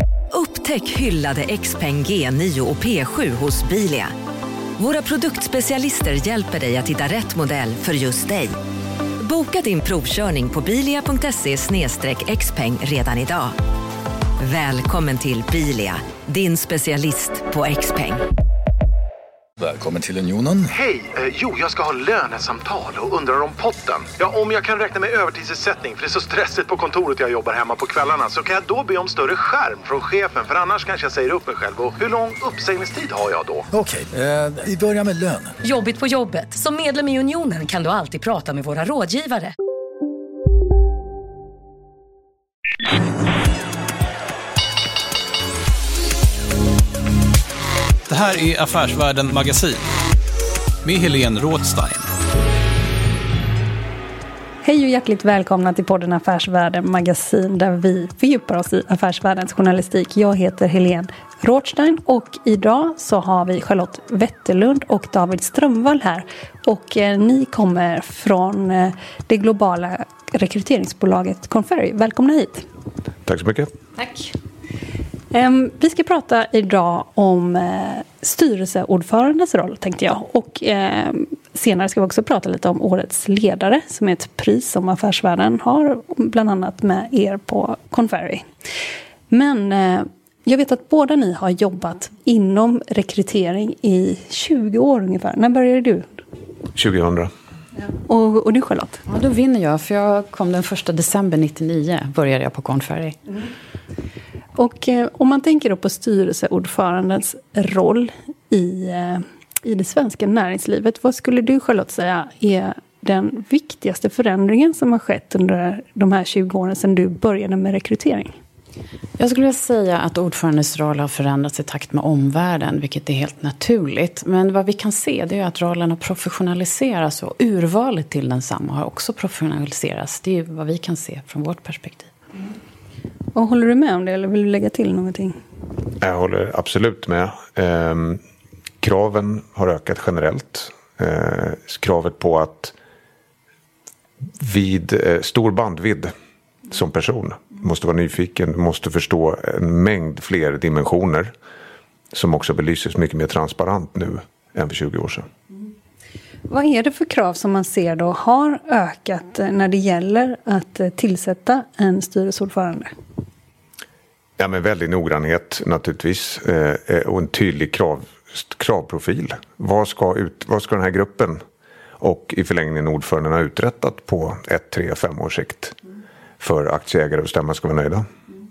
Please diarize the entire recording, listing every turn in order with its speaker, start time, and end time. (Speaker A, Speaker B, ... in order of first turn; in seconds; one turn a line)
Speaker A: 0.3-4.1
Speaker A: 4.8-8.6
Speaker A: 9.2-13.6
Speaker A: 14.4-18.2
Speaker B: 19.6-20.7
Speaker C: 20.7-33.6
Speaker B: 33.7-35.5
Speaker D: 35.6-39.5
Speaker E: 48.1-49.8
Speaker E: 50.8-52.1
Speaker F: 54.6-72.7
Speaker G: 73.2-73.7
Speaker H: 74.0-74.3
Speaker F: 75.3-88.5
Speaker F: 89.3-96.2
Speaker G: 96.7-97.3
Speaker F: 97.8-99.0
Speaker H: 99.0-103.2
Speaker F: 104.5-118.4
Speaker H: 119.2-132.1
Speaker F: 133.3-135.4
Speaker G: 136.0-138.2
Speaker G: 138.8-142.7
Speaker G: 144.4-146.1
Speaker G: 146.7-151.3
Speaker G: 152.1-155.3
Speaker F: 156.5-162.9
Speaker G: 164.4-171.4
Speaker G: 172.0-175.8
Speaker G: 176.4-178.1